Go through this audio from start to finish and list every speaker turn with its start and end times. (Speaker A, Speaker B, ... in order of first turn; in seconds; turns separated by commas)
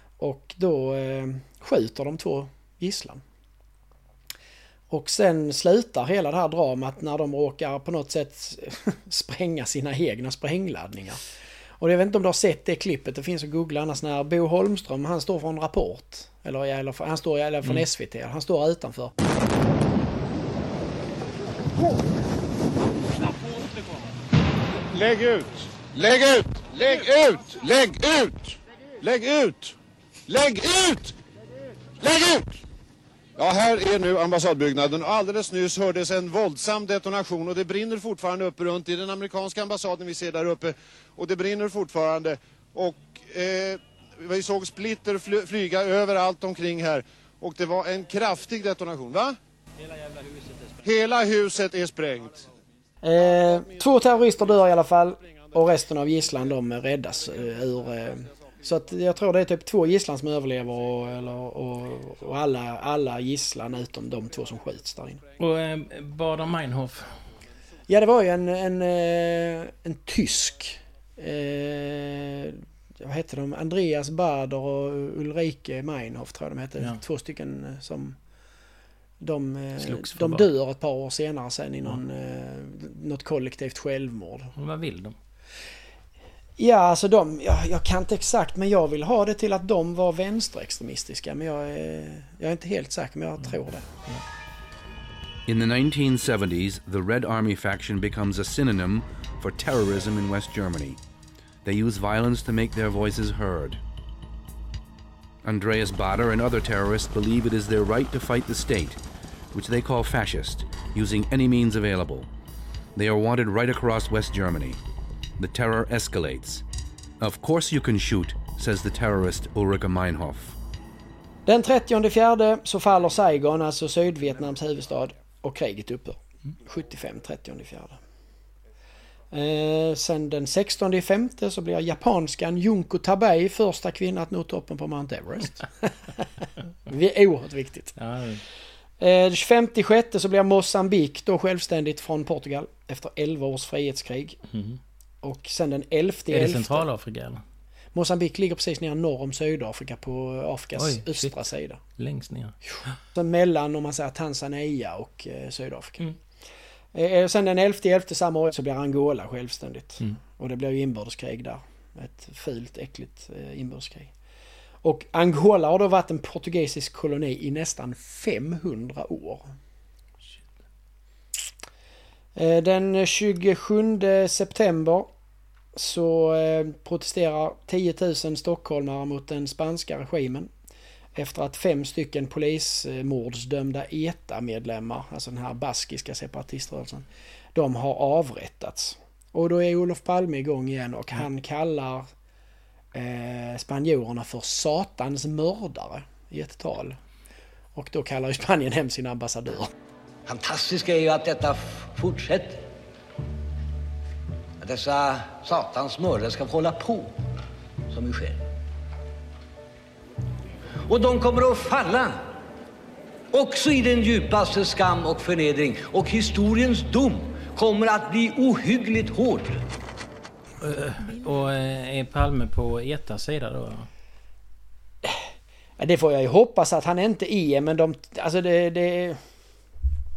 Speaker A: 0.2-3.2, Speaker A: 4.9-11.2, Speaker A: 11.8-19.1, Speaker B: 24.9-29.7, Speaker B: 30.3-31.1, Speaker B: 32.0-32.6, Speaker B: 33.4-49.4, Speaker B: 50.8-52.5, Speaker A: 53.0-65.2, Speaker C: 65.4-67.1, Speaker A: 67.9-78.2, Speaker A: 79.2-84.5, Speaker C: 79.8-80.5, Speaker C: 84.6-85.2, Speaker A: 86.6-93.9, Speaker D: 95.5-101.0, Speaker D: 101.6-103.8, Speaker D: 105.4-109.0, Speaker D: 109.5-112.3, Speaker D: 113.0-114.8, Speaker D: 115.4-116.6, Speaker D: 117.2-120.5, Speaker A: 121.5-128.0, Speaker A: 129.3-138.0, Speaker C: 138.0-138.4, Speaker A: 139.0-144.4, Speaker C: 144.5-144.8, Speaker A: 145.2-146.8, Speaker C: 146.3-147.4, Speaker A: 147.9-151.8, Speaker C: 150.8-153.0, Speaker A: 153.1-156.1, Speaker A: 156.9-164.1, Speaker A: 164.8-169.5, Speaker A: 172.4-175.1, Speaker A: 175.8-180.5, Speaker A: 181.2-192.1, Speaker A: 192.9-197.0, Speaker A: 197.8-199.7, Speaker E: 200.3-202.6, Speaker E: 204.6-207.1, Speaker E: 207.9-208.4, Speaker E: 210.9-212.1, Speaker E: 213.3-219.6, Speaker C: 220.6-223.9, Speaker A: 225.8-229.2